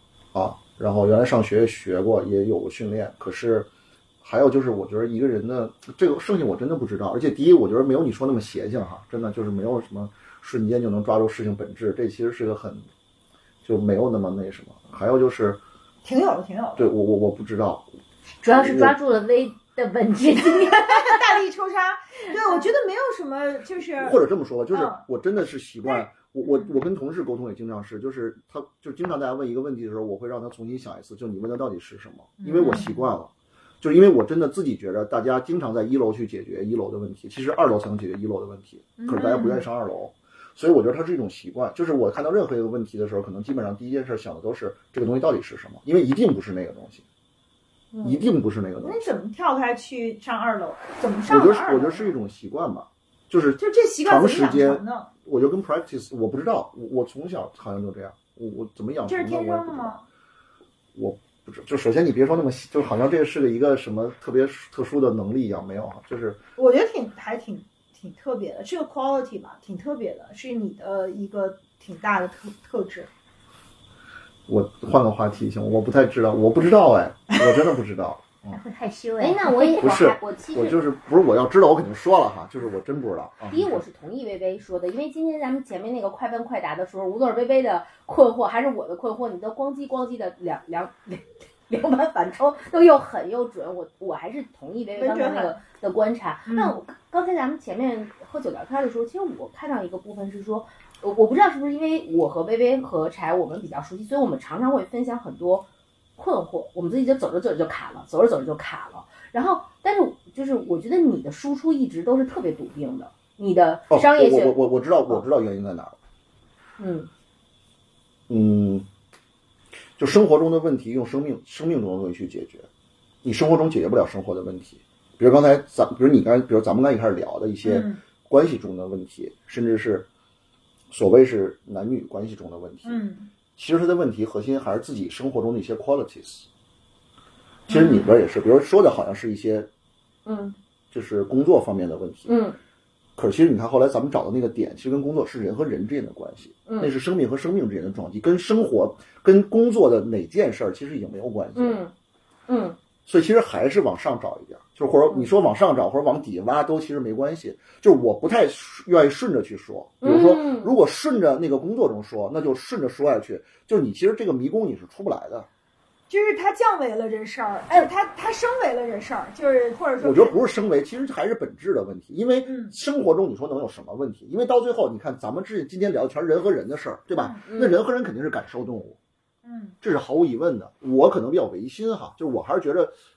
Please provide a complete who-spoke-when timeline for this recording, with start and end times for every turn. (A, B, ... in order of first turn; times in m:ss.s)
0:00.3-0:03.7 A
0:04.2-0:12.9 A
0:13.6-0:15.6 A
0:16.0-0:16.9 B
0:16.8-0:17.9 A
0:18.4-0:21.2 C
0:18.5-0:19.0 A
0:20.9-0:24.2 B
0:24.0-0:33.3 A
0:24.7-0:25.0 B
0:25.9-0:26.7 B
0:32.4-0:33.0 C
0:32.5-0:32.8 B
0:33.8-0:47.0 A
0:39.0-0:39.6 B
0:47.9-0:48.2 D
0:48.0-0:49.0 A
0:48.8-0:52.1 B
0:51.3-0:59.9 A
0:53.6-0:55.1 B
0:59.0-1:00.0 B
1:00.9-1:06.4 A
1:06.6-1:13.1 B
1:14.5-1:18.6 A
1:18.5-1:19.9 C
1:19.2-1:20.8 D
1:19.8-1:23.8 A
1:23.5-1:45.6 D
1:35.0-1:35.6 B
1:36.5-1:36.8 B
1:46.2-1:54.6 D
1:53.9-1:56.0 A
1:56.8-1:57.1 D
1:58.3-1:58.9 A
2:00.0-2:02.7 A
2:03.2-2:10.1 A
2:07.6-2:08.0 B
2:10.9-2:13.0 A
2:12.8-2:13.3 B
2:13.6-2:16.5 A
2:17.7-2:19.7 A
2:17.7-2:18.0 B
2:20.2-2:20.6 D
2:20.9-2:22.3 A
2:22.3-2:22.6 D
2:23.2-2:31.8 A
2:26.7-2:26.9 D
2:31.6-2:31.9 D
2:32.5-2:32.8 D
2:33.0-2:45.5 A
2:40.0-2:40.7 D
2:46.1-2:50.4 B
2:50.0-2:59.0 A
2:52.4-2:52.7 B
2:57.1-2:57.4 B
2:57.4-2:57.8 D
2:59.4-2:59.8 B
2:59.8-3:02.9 A